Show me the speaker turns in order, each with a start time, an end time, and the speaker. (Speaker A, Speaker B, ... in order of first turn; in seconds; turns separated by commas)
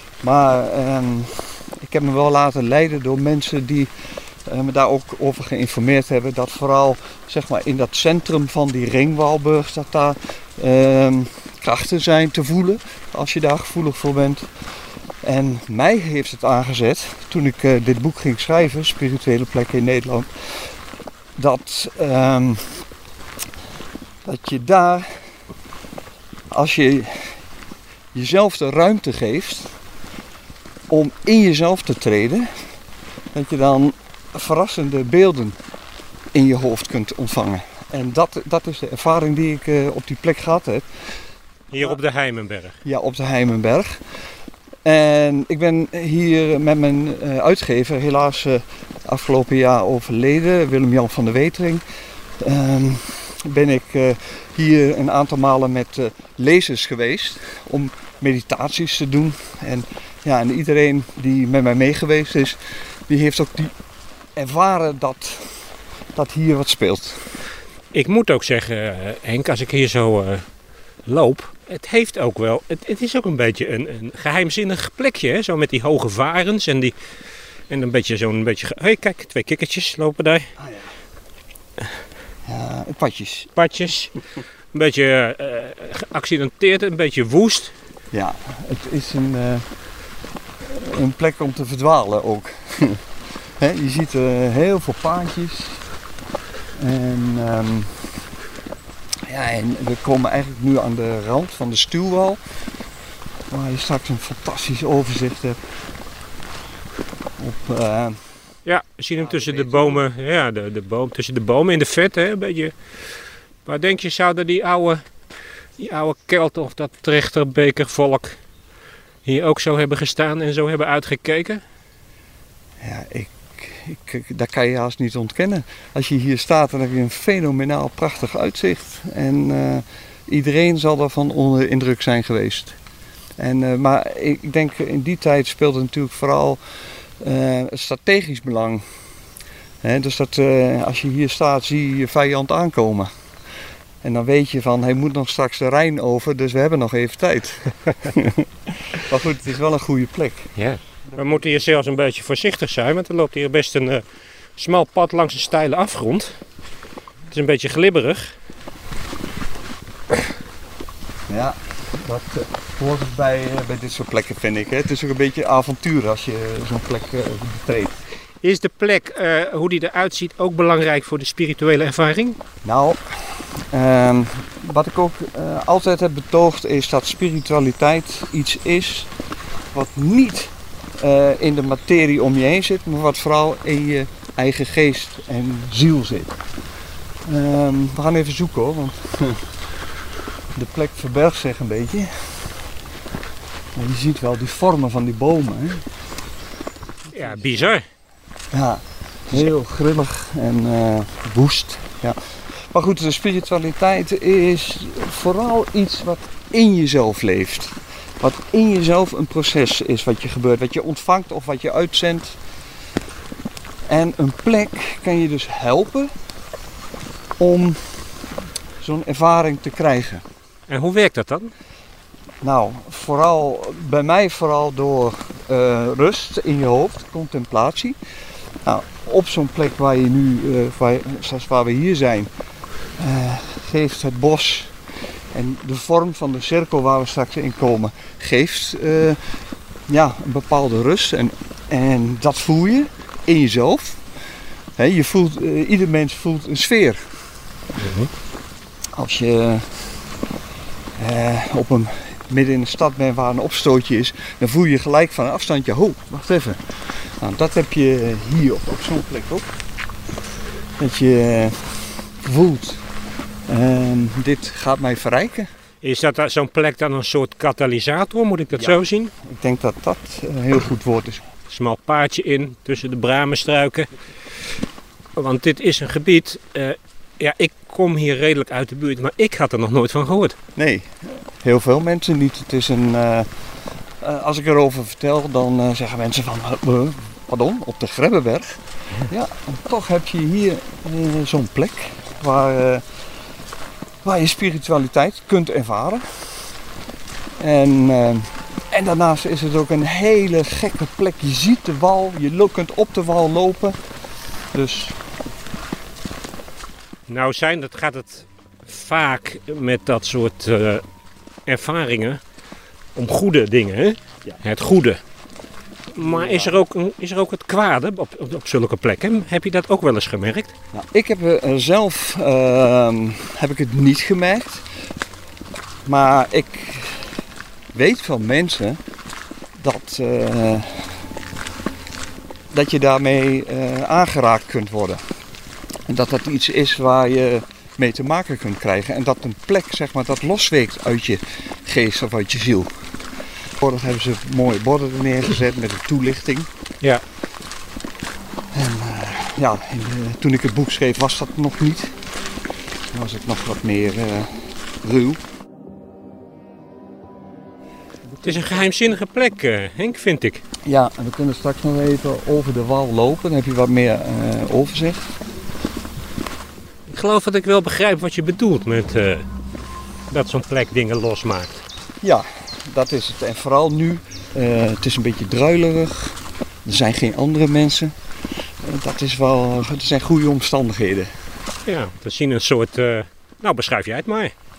Speaker A: 0.2-3.9, Speaker A: 4.5-14.5, Speaker A: 15.2-20.3, Speaker A: 21.4-22.8, Speaker A: 24.2-25.1, Speaker A: 26.5-27.4, Speaker A: 28.1-29.7, Speaker A: 30.9-32.5, Speaker A: 33.3-35.6, Speaker A: 36.3-40.9, Speaker B: 41.7-42.8, Speaker A: 42.8-44.0, Speaker A: 44.9-51.8, Speaker A: 52.4-63.7, Speaker A: 64.4-65.5, Speaker A: 66.2-67.2, Speaker B: 67.9-70.4, Speaker B: 71.1-77.0, Speaker B: 77.7-80.5, Speaker A: 80.6-80.9, Speaker A: 82.5-83.5, Speaker B: 83.6-84.2, Speaker B: 84.7-87.7, Speaker A: 88.1-89.7, Speaker A: 90.7-93.0, Speaker A: 93.6-95.8, Speaker A: 96.8-98.0, Speaker A: 99.3-102.4, Speaker A: 103.5-105.6, Speaker A: 107.4-108.2, Speaker B: 108.7-112.8, Speaker A: 109.2-110.0, Speaker B: 113.7-115.0, Speaker B: 115.8-118.4, Speaker B: 119.2-121.6, Speaker A: 122.8-132.8, Speaker A: 133.4-136.6, Speaker A: 137.2-138.8, Speaker A: 139.8-143.1, Speaker A: 144.0-148.5, Speaker A: 149.0-150.5, Speaker B: 150.6-154.0, Speaker B: 154.6-156.4, Speaker B: 157.3-158.3, Speaker A: 161.3-167.9, Speaker B: 168.4-172.4, Speaker A: 172.6-179.1, Speaker A: 179.7-186.4, Speaker A: 187.3-189.4, Speaker A: 190.6-192.5, Speaker A: 193.8-195.9, Speaker B: 197.1-197.8, Speaker A: 197.2-197.7, Speaker A: 198.5-202.2, Speaker A: 202.7-212.4, Speaker A: 213.9-216.1, Speaker A: 217.4-217.8, Speaker A: 218.8-220.2, Speaker B: 220.7-221.5, Speaker A: 222.4-228.0, Speaker A: 228.7-232.3, Speaker A: 233.0-234.7, Speaker A: 235.3-239.2, Speaker A: 239.9-244.0, Speaker A: 244.8-247.0, Speaker B: 247.8-248.1, Speaker A: 248.9-249.9, Speaker A: 251.0-256.6, Speaker A: 257.2-259.5, Speaker A: 260.8-262.8, Speaker A: 263.5-265.5, Speaker B: 265.8-269.1, Speaker A: 268.5-271.2, Speaker B: 271.5-273.9, Speaker B: 275.2-280.4, Speaker A: 280.6-283.3, Speaker A: 284.0-292.8, Speaker A: 294.0-296.1, Speaker A: 297.4-303.8, Speaker A: 304.5-305.0, Speaker B: 307.1-310.8, Speaker B: 311.5-312.2, Speaker B: 312.9-315.0, Speaker B: 315.9-320.5, Speaker A: 316.0-316.6, Speaker A: 320.7-324.6, Speaker A: 325.9-327.1, Speaker A: 327.7-328.8, Speaker A: 329.6-330.9, Speaker A: 332.5-335.0, Speaker A: 335.9-342.7, Speaker A: 343.6-346.5, Speaker A: 348.5-351.9, Speaker A: 352.9-355.2, Speaker A: 358.2-358.6, Speaker B: 358.2-360.4, Speaker A: 360.6-365.1, Speaker B: 366.9-369.3, Speaker B: 370.1-371.6, Speaker A: 372.0-377.9, Speaker A: 378.6-381.1, Speaker B: 381.6-384.3